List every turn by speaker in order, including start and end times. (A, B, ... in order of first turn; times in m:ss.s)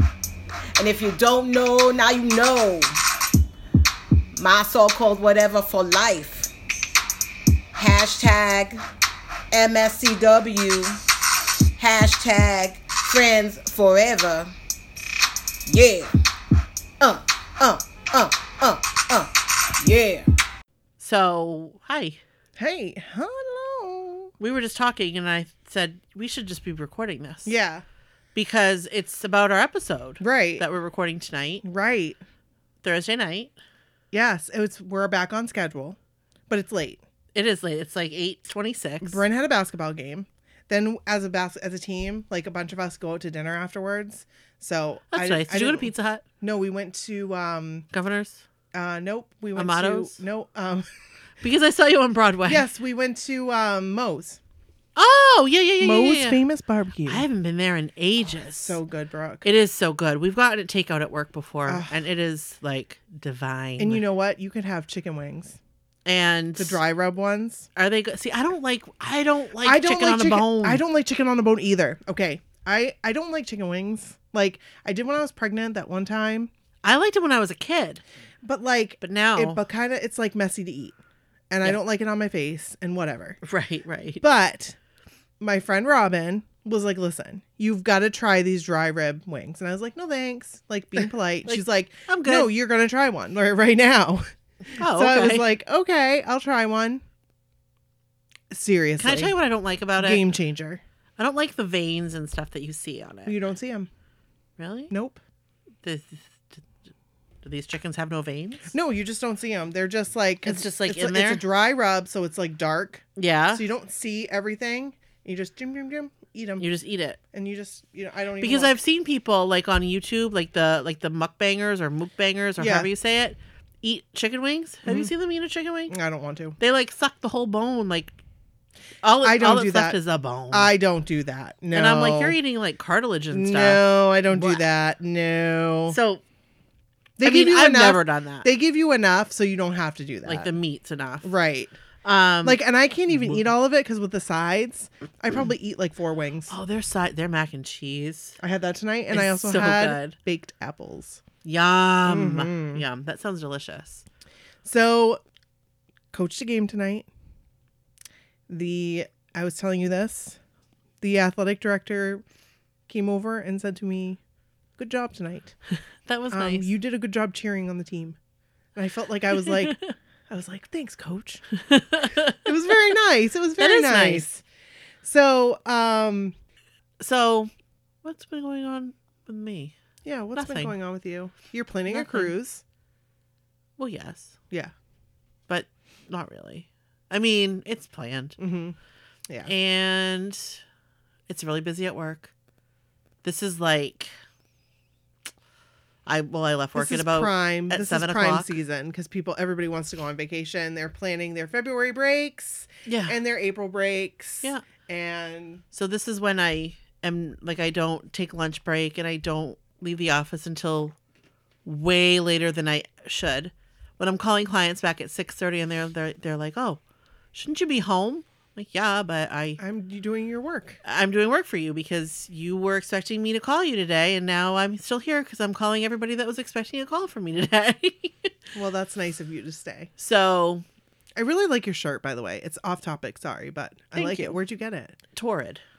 0:00.8-0:03.0 A
0:04.3-0:06.5 A
0:07.7-0:08.8 A
0:09.5-0:11.0 A
0:11.8-0:14.5 A
0:15.6-0:16.1 A
0:17.0-0:20.3 A
0:21.0-0:22.2 B
0:22.6-0:24.3 C
0:24.4-0:27.6 B
0:27.4-0:27.8 C
0:28.3-0:31.6 B
0:30.2-0:30.6 C
0:31.6-0:32.2 C
0:32.8-0:33.5 B
0:34.1-0:36.0 C
0:36.5-0:37.0 C
0:37.3-0:39.2 B
0:39.0-0:47.9 C
0:45.1-0:46.2 B
0:47.9-0:48.4 B
0:48.7-0:50.9 C
0:49.5-0:50.2 B
0:51.4-0:52.6 B
0:52.5-0:54.4 C
0:55.0-0:56.4 B
0:55.8-0:57.2 C
0:57.0-0:58.8 B
0:58.6-0:59.4 C
0:59.4-1:04.0 B
1:01.7-1:02.0 C
1:03.8-1:05.6 C
1:06.0-1:06.8 B
1:06.6-1:07.7 C
1:07.7-1:10.8 B
1:09.6-1:16.5 C
1:16.8-1:18.0 B
1:18.4-1:21.0 C
1:19.0-1:19.6 B
1:21.5-1:23.4 C
1:23.4-1:24.2 B
1:24.2-1:24.8 C
1:25.4-1:37.0 C
1:31.4-1:32.5 B
1:34.8-1:35.5 B
1:38.5-1:39.3 C
1:39.0-1:40.3 B
1:40.0-1:40.8 C
1:41.2-1:43.4 B
1:43.2-1:43.9 C
1:44.6-1:44.9 B
1:44.9-1:45.2 C
1:45.8-1:46.6 B
1:47.4-1:48.7 B
1:48.7-1:56.7 C
1:50.4-1:51.4 B
1:53.2-1:53.7 B
1:56.6-1:57.2 B
1:57.3-1:58.8 C
1:58.4-2:05.9 B
2:02.6-2:02.9 C
2:04.8-2:05.1 C
2:05.9-2:06.6 C
2:06.6-2:08.2 B
2:09.0-2:10.7 B
2:09.2-2:10.0 C
2:10.5-2:12.4 C
2:11.7-2:14.6 B
2:13.3-2:16.0 C
2:15.9-2:16.2 B
2:17.2-2:20.5 C
2:17.2-2:18.5 B
2:20.2-2:21.3 B
2:21.2-2:21.7 C
2:22.0-2:22.6 B
2:22.4-2:26.5 C
2:23.1-2:23.4 B
2:26.5-2:28.4 B
2:28.4-2:31.2 C
2:29.1-2:30.1 B
2:31.4-2:34.0 B
2:32.0-2:32.8 C
2:34.6-2:35.2 C
2:36.1-2:37.1 C
2:38.5-2:40.4 C
2:41.0-2:42.2 C
2:42.9-2:44.2 C
2:44.8-2:45.6 C
2:46.0-2:46.7 B
2:46.3-2:48.2 C
2:48.7-2:49.8 C
2:49.4-2:49.9 B
2:50.3-2:51.4 C
2:51.6-2:52.4 B
2:52.4-2:54.4 C
2:53.6-2:54.3 B
2:55.0-2:56.3 C
2:57.0-2:57.5 B
2:58.0-2:59.7 B
3:00.0-3:02.6 C
3:00.3-3:00.7 B
3:01.9-3:02.3 B
3:03.8-3:04.4 B
3:05.5-3:08.4 B
3:08.4-3:08.8 C
3:09.4-3:10.6 B
3:11.3-3:12.3 B
3:13.2-3:14.1 B
3:16.0-3:18.6 B
3:16.7-3:25.6 C
3:22.8-3:23.2 B
3:25.7-3:31.0 B
3:31.6-3:36.8 B
3:37.3-3:39.6 B
3:39.6-3:40.8 C
3:40.8-3:48.4 B
3:48.5-3:49.9 C
3:50.0-3:50.6 B
3:51.2-3:55.0 C
3:53.9-3:54.4 B
3:55.2-3:55.6 B